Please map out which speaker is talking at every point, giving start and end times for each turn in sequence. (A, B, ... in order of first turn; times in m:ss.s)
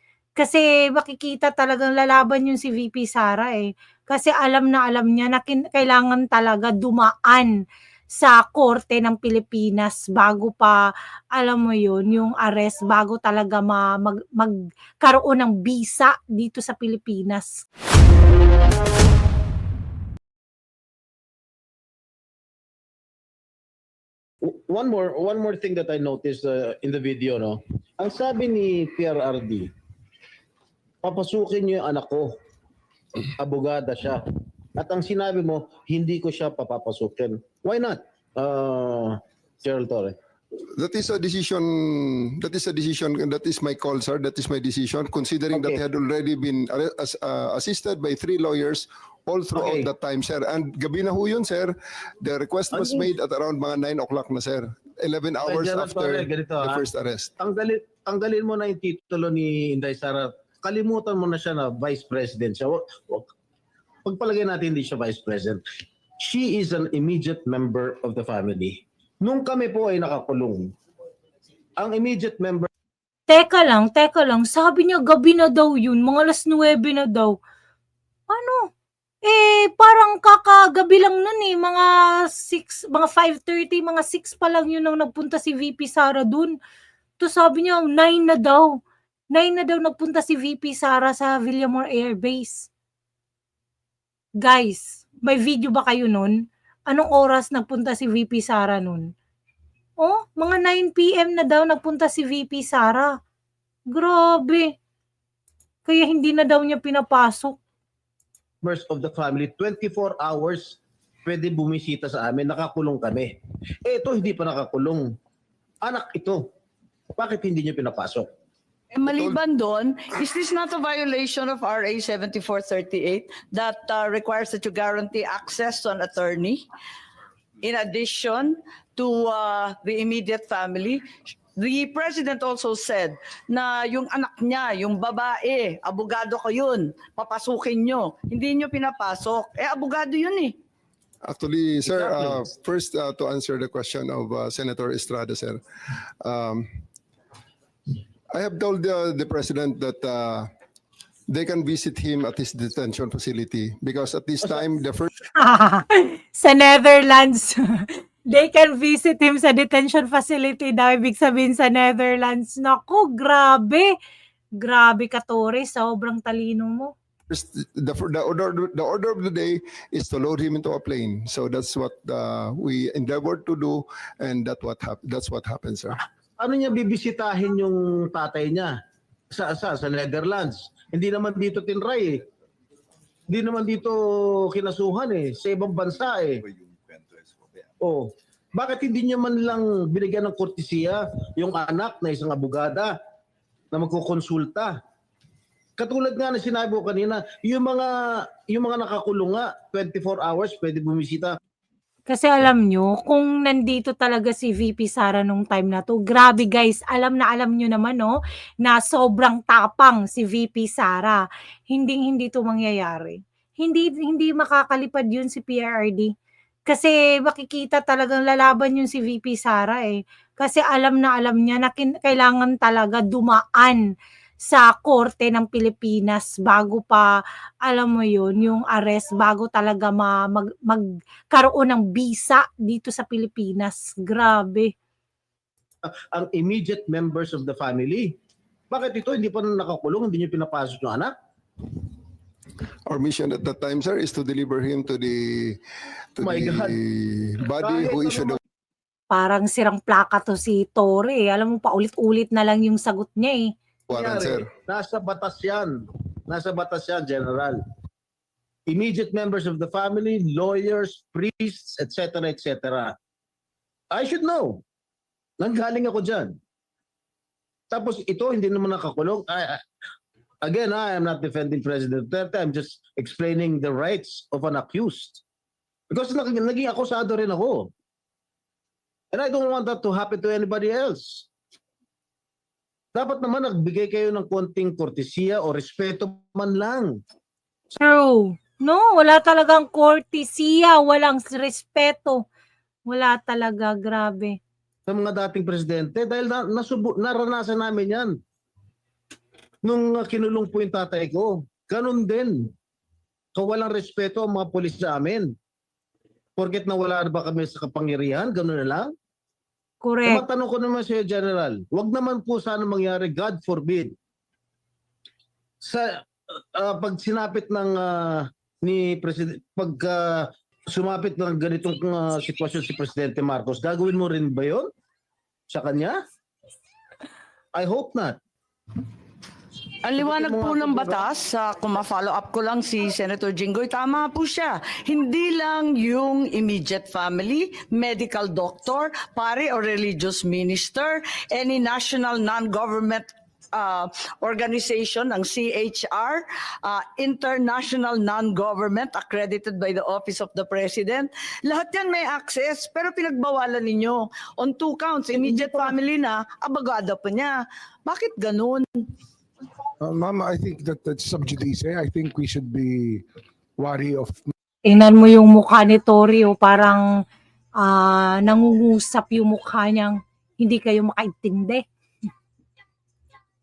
0:00.4-0:07.5 A
0:08.1-0:10.8 A
0:11.3-0:17.6 A
0:24.4-0:29.7 B
0:31.0-0:32.3 B
0:33.3-0:40.2 B
0:40.8-0:57.3 C
0:45.5-0:45.8 B
0:49.6-0:49.9 B
0:52.7-0:53.1 B
0:55.4-0:56.8 B
0:57.4-1:03.3 B
1:04.0-1:05.6 B
1:06.2-1:10.7 B
1:11.8-1:12.7 B
1:13.3-1:17.4 A
1:18.3-1:18.7 A
1:19.2-1:26.6 A
1:27.2-1:28.8 A
1:29.3-1:32.7 A
1:34.4-1:36.4 A
1:36.9-1:39.1 A
1:40.0-1:43.1 A
1:43.9-1:44.7 A
1:45.8-1:47.6 A
1:48.6-1:53.3 B
1:53.8-1:55.1 B
1:55.8-1:56.5 B
1:57.2-1:58.3 B
1:58.9-2:06.6 D
2:07.6-2:11.0 D
2:11.6-2:20.6 D
2:21.2-2:25.6 C
2:21.8-2:22.4 B
2:26.2-2:26.7 C
2:28.3-2:30.5 C
2:31.3-2:35.1 C
2:35.4-2:43.9 A
2:44.6-2:46.9 A
2:47.3-2:56.0 C
2:56.4-2:58.7 B
2:59.3-3:02.2 B
3:03.3-3:06.4 B
3:07.8-3:13.0 B
3:13.7-3:14.8 B
3:15.8-3:21.4 B
3:22.1-3:36.1 A
3:36.7-3:43.8 A
3:44.4-3:47.1 A
3:47.6-3:54.7 A
3:55.8-3:58.2 B
3:58.7-4:01.1 B
4:02.9-4:05.6 C
4:06.2-4:08.4 C
4:06.2-4:06.8 B
4:07.6-4:08.4 B
4:09.1-4:13.5 A
4:13.9-4:14.5 C
4:13.9-4:15.8 B
4:16.3-4:17.6 B
4:18.7-4:22.9 B
4:23.9-4:24.6 B
4:25.4-4:26.4 B
4:27.7-4:29.6 B
4:30.4-4:35.2 B
4:35.9-4:37.7 B
4:39.1-4:41.3 B
4:42.9-4:47.0 B
4:47.8-4:52.2 A
4:52.9-4:54.4 A
4:54.9-4:58.2 B
4:59.6-5:02.5 B
5:03.4-5:05.3 B
5:06.4-5:08.9 B
5:09.8-5:10.2 A
5:10.1-5:13.9 B
5:15.6-5:15.9 B
5:16.6-5:24.7 B
5:25.5-5:26.0 B
5:27.5-5:28.2 B
5:29.8-5:58.7 D
5:30.0-5:31.1 B
5:59.8-6:03.0 E
6:03.6-6:04.3 E
6:04.6-6:06.9 A
6:07.6-6:11.6 A